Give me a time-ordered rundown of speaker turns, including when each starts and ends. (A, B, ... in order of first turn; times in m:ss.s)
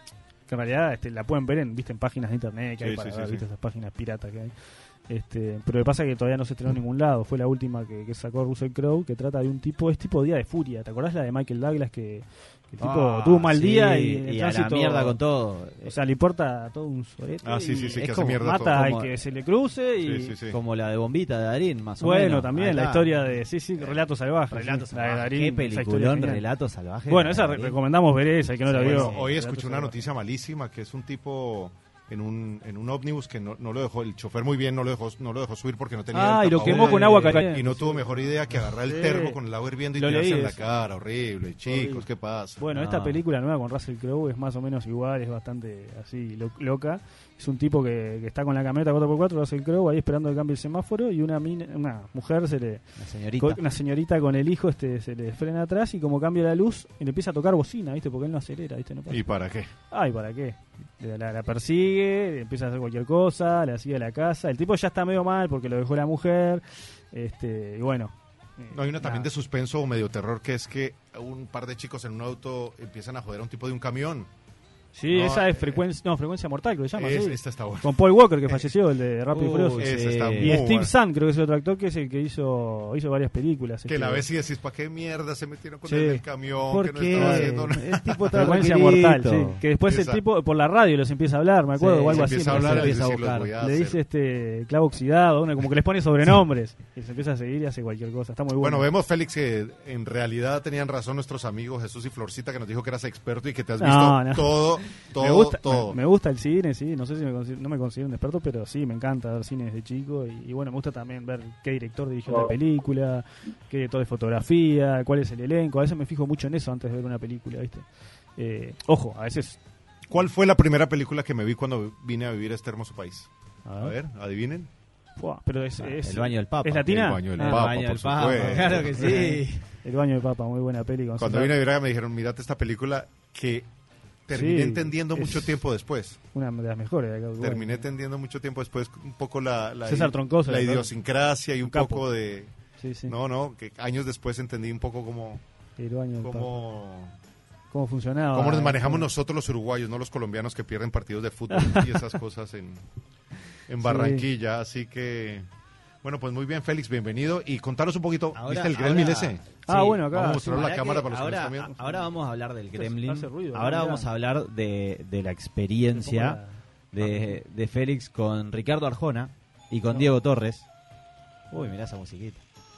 0:00.5-0:04.5 A
0:02.8-0:03.4 B
0:05.1-0:15.2 A
0:12.8-0:16.0 C
0:15.8-0:20.4 A
0:17.4-0:18.9 B
0:18.0-0:19.1 C
0:20.0-0:20.6 B
0:20.5-0:23.1 C
0:22.0-0:26.4 A
0:24.5-0:27.8 C
0:27.1-0:30.0 A
0:28.6-0:29.3 C
0:28.8-0:42.6 B
0:36.1-0:39.4 A
0:36.6-0:37.5 C
0:39.9-0:40.6 A
0:41.7-0:42.0 A
0:42.6-0:52.9 A
0:42.7-0:43.2 C
0:53.0-0:53.6 C
0:53.4-0:59.2 A
0:59.1-0:59.7 B
0:59.9-1:09.3 A
1:08.7-1:14.3 B
1:14.9-1:24.3 A
1:15.1-1:15.8 B
1:17.0-1:18.7 B
1:19.3-1:20.6 C
1:19.8-1:20.9 B
1:23.9-1:28.2 B
1:25.8-1:26.2 A
1:26.7-1:29.6 C
1:27.1-1:27.8 A
1:28.3-1:33.0 A
1:29.9-1:30.2 B
1:31.8-1:33.5 C
1:32.1-1:34.0 B
1:33.6-1:38.9 A
1:38.6-1:46.0 B
1:43.8-1:59.6 A
2:00.1-2:04.7 B
2:03.6-2:04.0 A
2:05.2-2:07.3 A
2:05.8-2:09.7 C
2:06.8-2:09.2 B
2:08.4-2:11.6 A
2:11.2-2:13.7 B
2:14.3-2:16.2 B
2:14.3-2:15.6 A
2:16.3-2:17.9 A
2:17.4-2:22.5 B
2:19.9-2:20.9 A
2:21.7-2:22.1 A
2:22.8-2:23.2 A
2:23.1-2:25.4 B
2:25.8-2:26.6 A
2:26.2-2:27.1 B
2:27.7-2:29.1 A
2:28.3-2:32.8 B
2:31.5-2:32.1 A
2:33.7-2:35.5 B
2:33.8-2:34.3 A
2:36.0-2:41.8 B
2:38.4-2:46.4 C
2:39.7-2:40.6 A
2:42.8-2:44.1 A
2:45.9-2:47.4 A
2:46.9-2:50.7 C
2:51.5-2:52.4 C